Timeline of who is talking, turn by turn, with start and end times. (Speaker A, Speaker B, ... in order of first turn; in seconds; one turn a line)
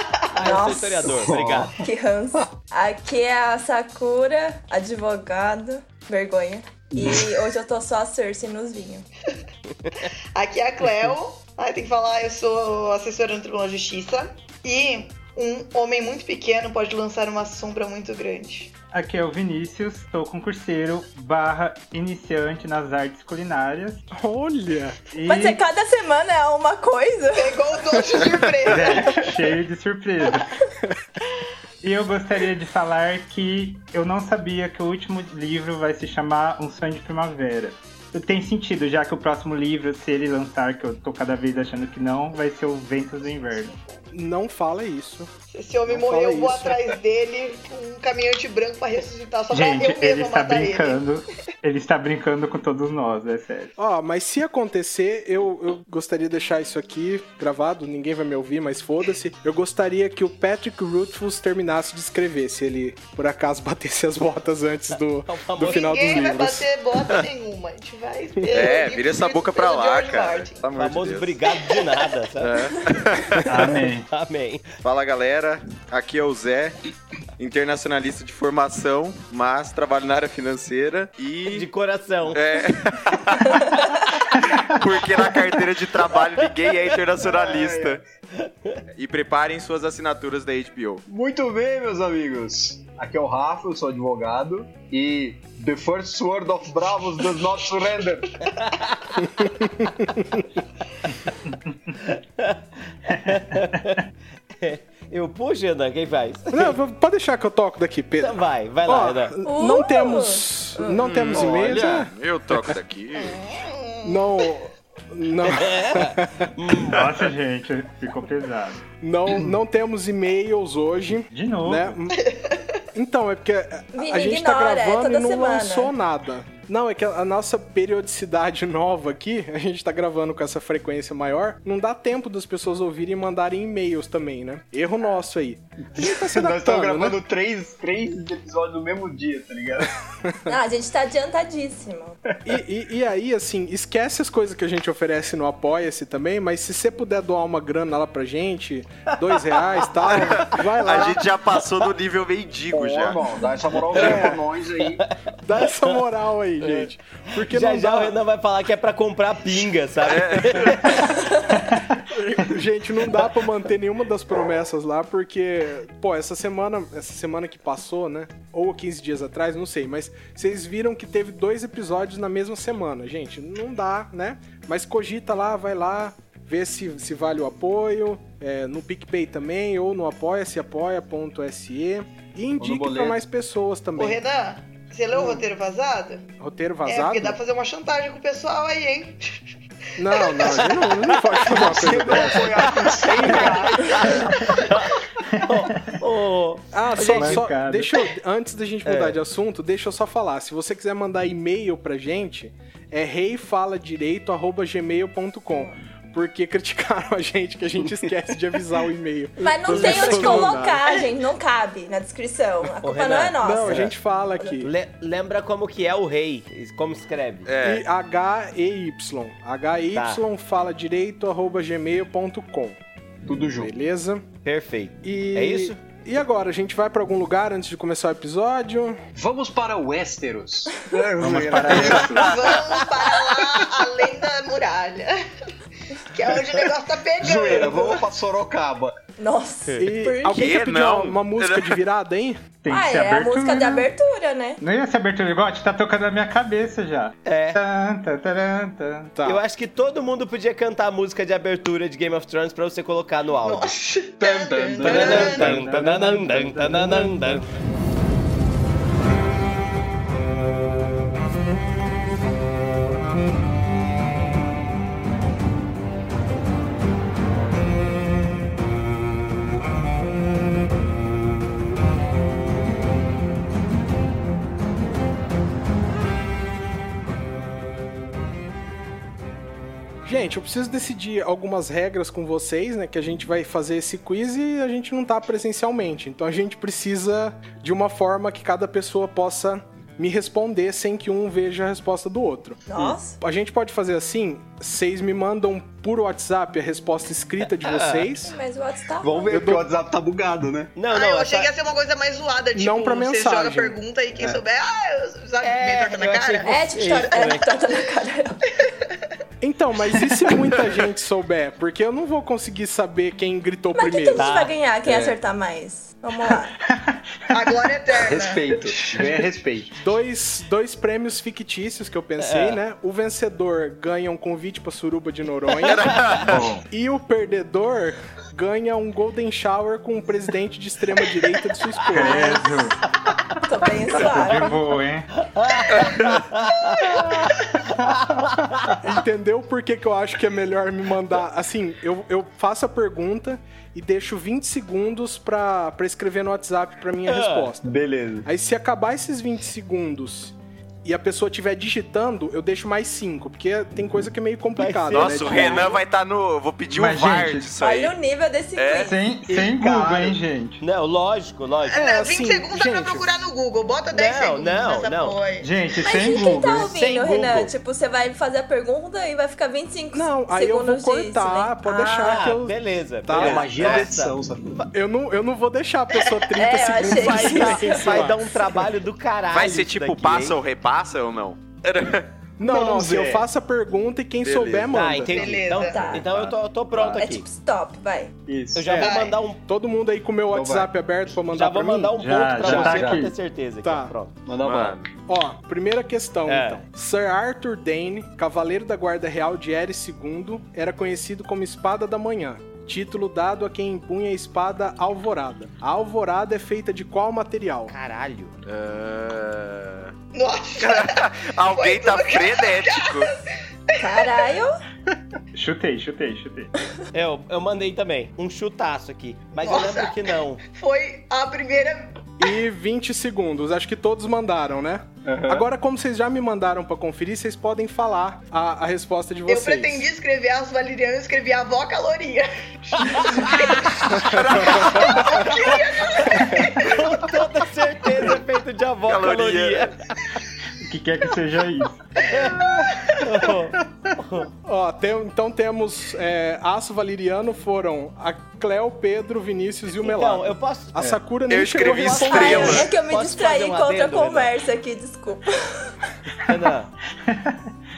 Speaker A: 0.3-1.7
Speaker B: 0.3-1.1
Speaker C: 1.1-1.8
Speaker B: 1.8-9.1
Speaker C: 6.9-7.4
Speaker D: 10.3-18.7
Speaker E: 18.9-24.1
Speaker F: 24.1-25.0
Speaker E: 25.1-25.6
Speaker B: 25.2-27.6
Speaker D: 27.4-29.3
Speaker E: 28.6-30.6
Speaker E: 31.8-43.8
Speaker F: 44.1-45.3
Speaker D: 45.5-51.0
Speaker F: 45.9-46.9
Speaker E: 49.5-53.7
Speaker F: 53.8-66.7
Speaker A: 65.3-66.2
Speaker D: 65.6-70.7
Speaker F: 68.4-68.7
Speaker G: 68.5-71.4
Speaker A: 70.8-72.6
Speaker G: 72.4-73.7
Speaker E: 73.5-74.1
Speaker A: 74.1-74.7
Speaker G: 74.8-76.8
Speaker G: 77.4-81.7
Speaker A: 81.5-82.4
Speaker G: 82.3-88.0
Speaker C: 87.2-88.0
Speaker A: 88.4-88.8
Speaker G: 89.0-91.0
Speaker C: 91.1-98.3
Speaker A: 98.6-99.3
Speaker F: 99.4-100.4
Speaker A: 102.0-104.0
Speaker A: 104.6-106.7
Speaker F: 106.5-112.8
Speaker A: 108.2-109.3
Speaker B: 109.5-110.5
Speaker G: 110.9-113.4
Speaker C: 111.3-112.1
Speaker D: 113.4-114.5
Speaker F: 114.0-116.5
Speaker A: 115.4-117.0
Speaker E: 116.9-118.8
Speaker F: 119.0-122.2
Speaker E: 121.3-122.0
Speaker D: 122.2-122.6
Speaker F: 123.0-137.2
Speaker B: 123.9-125.9
Speaker C: 136.0-139.9
Speaker F: 140.3-140.6
Speaker B: 140.5-142.2
Speaker F: 142.4-151.3
Speaker G: 150.1-153.3
Speaker C: 152.7-155.0
Speaker F: 153.9-154.4
Speaker F: 155.4-158.2
Speaker A: 155.7-155.9
Speaker A: 157.3-161.0
Speaker G: 160.0-161.1
Speaker F: 162.1-184.2
Speaker C: 182.6-183.2
Speaker D: 184.0-186.3
Speaker F: 185.2-185.4
Speaker F: 186.4-187.4
Speaker D: 186.8-189.2
Speaker F: 190.0-193.7
Speaker D: 190.1-190.8
Speaker C: 191.5-194.3
Speaker A: 193.1-197.4
Speaker D: 193.5-195.0
Speaker F: 196.7-210.8
Speaker E: 197.0-197.9
Speaker A: 198.9-199.2
Speaker B: 209.4-213.9
Speaker A: 209.7-210.6
Speaker A: 212.8-213.9
Speaker F: 213.4-214.7
Speaker A: 214.6-217.5
Speaker G: 217.5-217.8
Speaker F: 217.6-222.8
Speaker A: 219.9-220.2
Speaker C: 223.3-223.7
Speaker F: 223.5-224.3
Speaker A: 224.4-225.8
Speaker F: 225.0-229.0
Speaker C: 229.2-232.5
Speaker E: 231.2-232.3
Speaker F: 231.2-231.9
Speaker D: 231.8-235.2
Speaker D: 236.0-238.1
Speaker C: 237.2-238.9
Speaker B: 239.2-240.4
Speaker F: 239.8-242.4
Speaker G: 240.3-241.8
Speaker E: 242.6-243.9
Speaker B: 242.7-244.6
Speaker E: 244.6-249.1
Speaker A: 247.2-247.6
Speaker F: 249.2-249.4
Speaker A: 249.2-253.7
Speaker D: 253.4-255.6
Speaker C: 254.2-255.5
Speaker A: 254.8-257.5
Speaker E: 254.8-257.5
Speaker F: 280.1-298.4
Speaker B: 292.7-293.2
Speaker A: 297.6-298.1
Speaker B: 298.2-299.4
Speaker C: 299.0-300.7
Speaker F: 299.3-299.7
Speaker A: 300.8-301.5
Speaker D: 300.9-307.1
Speaker F: 302.6-303.8
Speaker A: 305.4-307.4
Speaker B: 306.4-308.4
Speaker F: 309.4-314.3
Speaker B: 313.8-316.6
Speaker A: 314.2-315.2
Speaker E: 316.7-317.7
Speaker D: 317.3-318.6
Speaker C: 318.0-319.7
Speaker F: 319.8-332.3
Speaker A: 322.2-322.6
Speaker G: 325.6-326.4
Speaker E: 326.3-326.6
Speaker E: 331.9-332.9
Speaker B: 331.9-332.7
Speaker B: 333.4-334.6
Speaker E: 333.9-335.1
Speaker A: 335.2-338.8
Speaker G: 335.7-336.2
Speaker E: 337.8-338.7
Speaker F: 338.8-347.7
Speaker A: 347.1-347.5
Speaker C: 347.6-348.2
Speaker F: 348.2-355.8
Speaker A: 354.6-355.8
Speaker G: 354.9-357.9
Speaker E: 356.7-357.5
Speaker B: 357.6-359.0
Speaker G: 358.6-358.9
Speaker E: 358.8-360.6
Speaker C: 359.3-360.2
Speaker A: 360.6-361.8
Speaker D: 361.7-365.5
Speaker F: 361.7-363.1
Speaker A: 363.9-365.2
Speaker E: 365.4-366.7
Speaker B: 365.8-372.3
Speaker A: 366.5-367.5
Speaker F: 369.9-373.9
Speaker A: 372.0-374.6
Speaker C: 373.1-374.6
Speaker F: 374.7-378.5
Speaker D: 376.0-376.2
Speaker B: 376.3-378.1
Speaker A: 376.8-380.4
Speaker G: 379.3-382.1
Speaker F: 382.4-385.4
Speaker C: 382.4-383.2
Speaker G: 384.2-384.7
Speaker A: 384.7-387.2
Speaker D: 385.1-385.9
Speaker B: 385.6-386.1
Speaker G: 386.0-386.4
Speaker B: 386.8-388.2
Speaker C: 388.3-388.7
Speaker A: 388.5-389.4
Speaker F: 388.7-388.9
Speaker D: 388.7-389.2
Speaker F: 389.4-391.9
Speaker C: 390.3-390.7
Speaker A: 391.3-394.2
Speaker E: 392.0-393.1
Speaker C: 392.4-393.1
Speaker F: 393.6-393.9
Speaker C: 394.3-394.8
Speaker G: 394.4-394.9
Speaker F: 395.1-407.7
Speaker A: 396.3-396.6
Speaker A: 407.7-408.3
Speaker G: 408.5-409.9
Speaker D: 410.1-413.1
Speaker G: 410.6-413.1
Speaker D: 413.7-414.4
Speaker B: 413.8-414.6
Speaker E: 415.3-416.5
Speaker A: 416.9-420.4
Speaker D: 419.4-422.3
Speaker F: 422.2-429.9
Speaker C: 425.1-425.4
Speaker D: 429.3-434.0
Speaker A: 432.8-433.7
Speaker G: 434.0-435.1
Speaker F: 434.1-435.0
Speaker D: 434.6-437.3
Speaker A: 434.6-439.7
Speaker G: 438.9-439.7
Speaker E: 440.6-441.9
Speaker A: 442.1-442.4
Speaker A: 442.9-444.3
Speaker F: 444.4-452.7
Speaker A: 449.7-451.0
Speaker G: 451.3-452.7
Speaker A: 451.6-454.3
Speaker B: 452.0-455.7
Speaker A: 456.2-456.7
Speaker E: 457.1-457.4